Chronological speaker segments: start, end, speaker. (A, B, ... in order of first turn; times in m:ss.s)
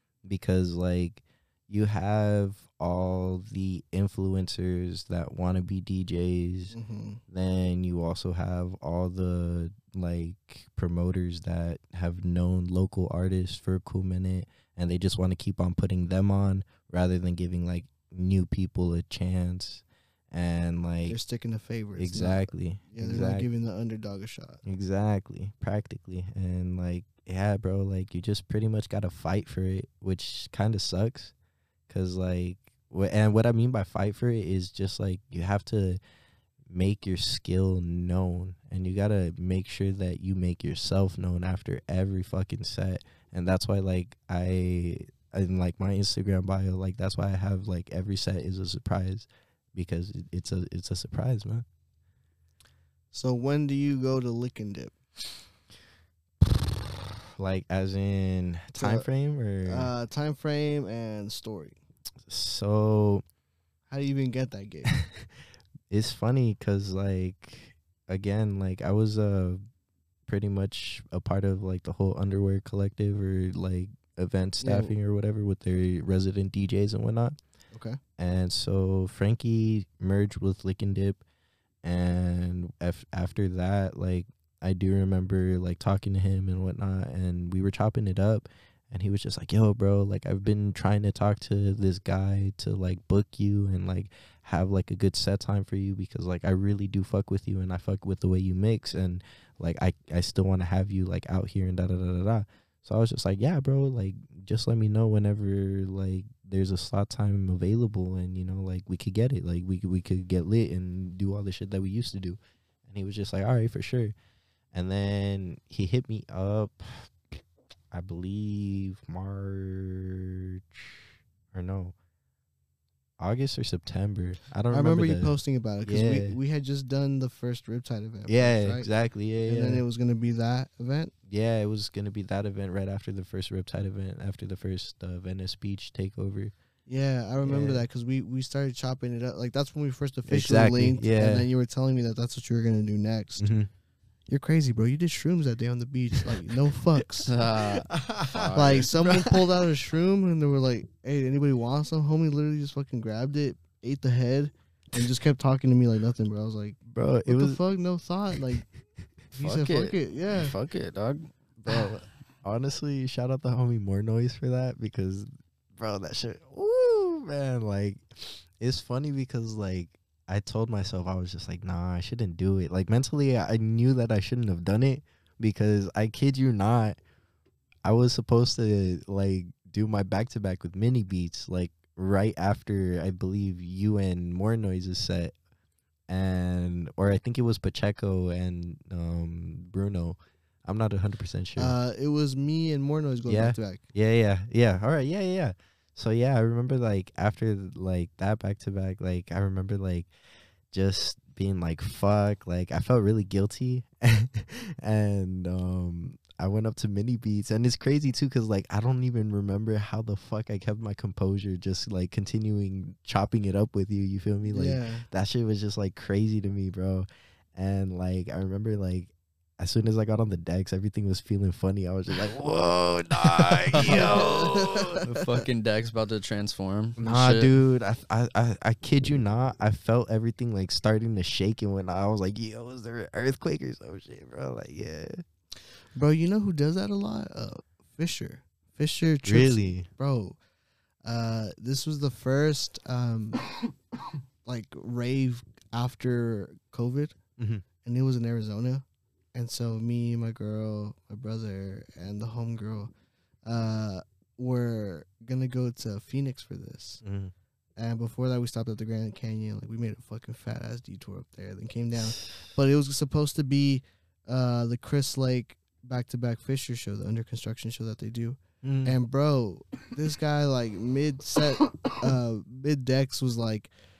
0:00.2-0:06.8 A
0:06.7-0:07.2 B
0:07.3-0:21.2 A
0:21.1-0:24.6 B
0:22.0-0:23.5 A
0:24.6-0:31.3 A
0:31.9-0:36.0 A
0:36.7-0:51.7 A
0:53.1-0:54.9 B
0:56.4-0:59.9 A
0:58.8-0:59.1 B
0:59.7-1:01.8 B
1:02.3-1:03.2 A
1:03.9-1:05.0 B
1:04.9-1:05.3 A
1:05.9-1:09.6 A
1:10.3-1:17.4 A
1:14.6-1:14.9 B
1:17.7-1:18.0 B
1:18.2-1:21.2 A
1:21.8-1:54.1 A
1:54.7-1:57.4 A
1:57.9-2:02.0 A
2:03.2-2:06.4 A
2:04.7-2:08.9 B
2:08.3-2:09.8 A
2:09.4-2:11.1 B
2:11.3-2:16.5 A
2:16.9-2:23.4 B
2:17.4-2:17.9 A
2:20.3-2:21.5 A
2:23.4-2:23.7 A
2:24.3-2:27.3 B
2:27.2-2:28.9 C
2:27.4-2:29.7 A
2:28.6-2:38.7 B
2:36.9-2:37.6 A
2:39.3-2:40.5 B
2:39.4-2:41.3 C
2:41.6-2:57.0 A
2:57.8-3:05.4 A
3:06.1-3:11.8 A
3:11.6-3:13.8 B
3:13.3-3:20.1 A
3:20.7-3:45.0 A
3:34.5-3:35.1 B
3:43.7-3:47.5 C
3:43.8-3:45.0 B
3:47.0-3:55.2 A
3:56.0-4:00.4 B
3:59.2-3:59.9 A
4:01.0-4:03.6 B
4:04.4-4:07.2 B
4:07.4-4:07.7 A
4:07.8-4:12.9 B
4:13.4-4:17.0 B
4:17.0-4:17.3 A
4:17.8-4:33.7 B
4:28.6-4:29.0 A